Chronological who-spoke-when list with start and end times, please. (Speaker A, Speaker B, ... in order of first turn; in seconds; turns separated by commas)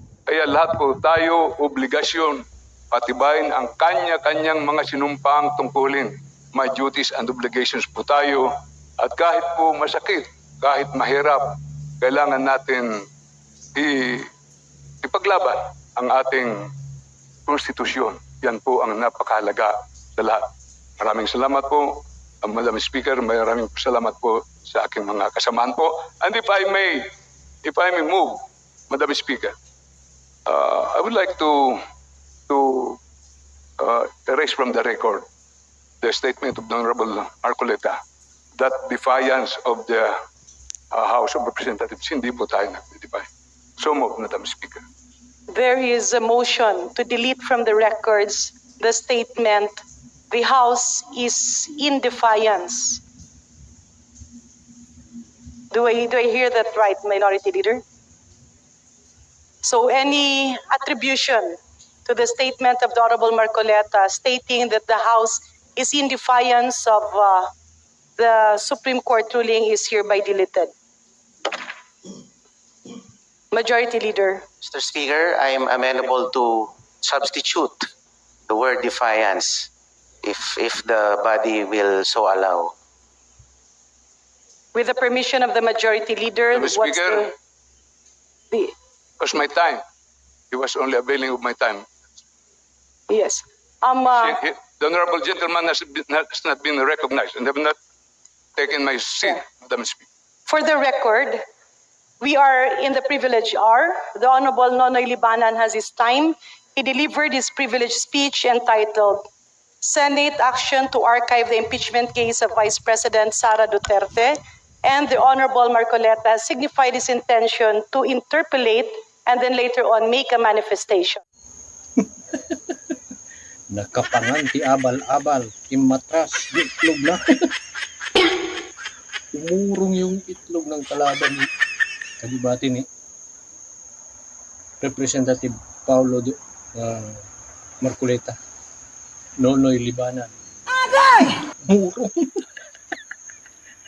Speaker A: 0.3-12.9, Speaker A: 13.7-14.3, Speaker A: 15.0-16.6, Speaker A: 17.5-20.4, Speaker A: 21.0-27.0, Speaker A: 27.6-28.4, Speaker A: 28.9-29.5, Speaker A: 30.4-31.8, Speaker A: 32.5-33.0, Speaker A: 33.8-35.2, Speaker A: 36.0-38.0, Speaker A: 38.6-40.1, Speaker A: 40.9-43.3, Speaker A: 43.8-44.8, Speaker B: 45.5-53.0, Speaker B: 55.7-57.8, Speaker B: 59.6-67.5, Speaker B: 68.2-70.7, Speaker B: 73.5-74.4, Speaker C: 74.6-77.9, Speaker C: 78.5-79.7, Speaker C: 80.2-82.7, Speaker B: 84.7-87.3, Speaker A: 86.5-87.3, Speaker A: 89.2-89.8, Speaker A: 90.5-91.8, Speaker B: 93.1-94.4, Speaker A: 94.1-97.8, Speaker A: 98.6-100.0, Speaker B: 100.5-101.4, Speaker B: 102.2-109.3, Speaker B: 109.8-121.2, Speaker D: 123.7-127.5, Speaker D: 129.3-131.4, Speaker D: 132.2-132.8, Speaker D: 134.8-137.2, Speaker D: 137.8-138.4, Speaker D: 139.4-140.3, Speaker D: 141.1-142.4